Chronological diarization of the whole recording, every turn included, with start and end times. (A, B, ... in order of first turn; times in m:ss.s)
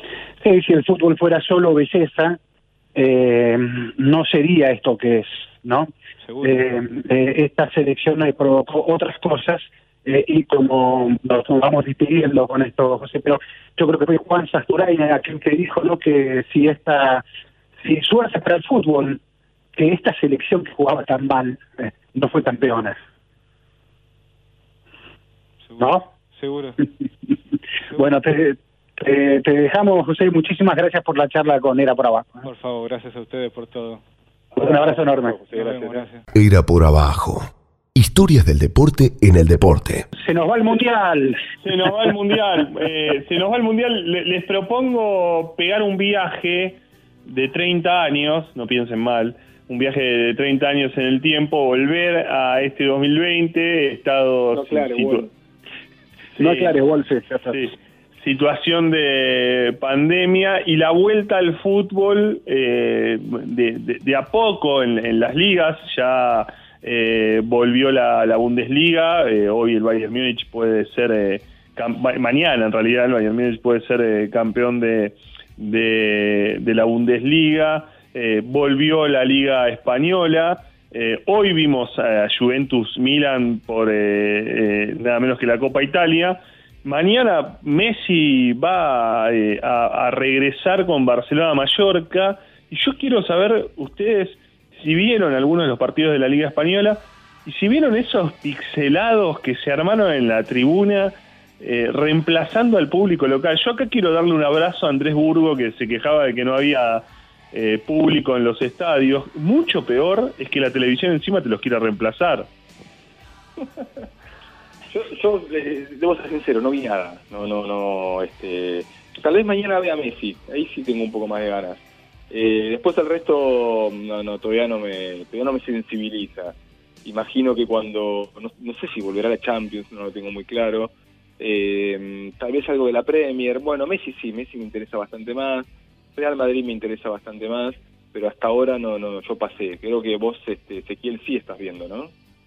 0:00.4-0:02.4 A
0:02.9-0:05.9 A
0:06.2-0:06.6 B
0:06.4-0:17.2 A
0:17.8-0:19.2 A
0:19.7-0:23.0 A
0:25.6-0:26.8 B
0:25.8-0:26.1 A
0:27.9-0:32.4 A
0:32.4-0:34.0 B
0:34.6-0:35.4 A
0:34.6-0:36.1 C
0:35.5-0:36.2 B
0:36.3-0:40.1 D
0:40.1-0:41.4 A
0:41.6-0:55.2 E
0:54.5-0:55.3 C
0:56.4-0:56.8 E
0:56.4-0:57.6 A
0:57.5-1:52.5 E
1:54.9-2:22.1 C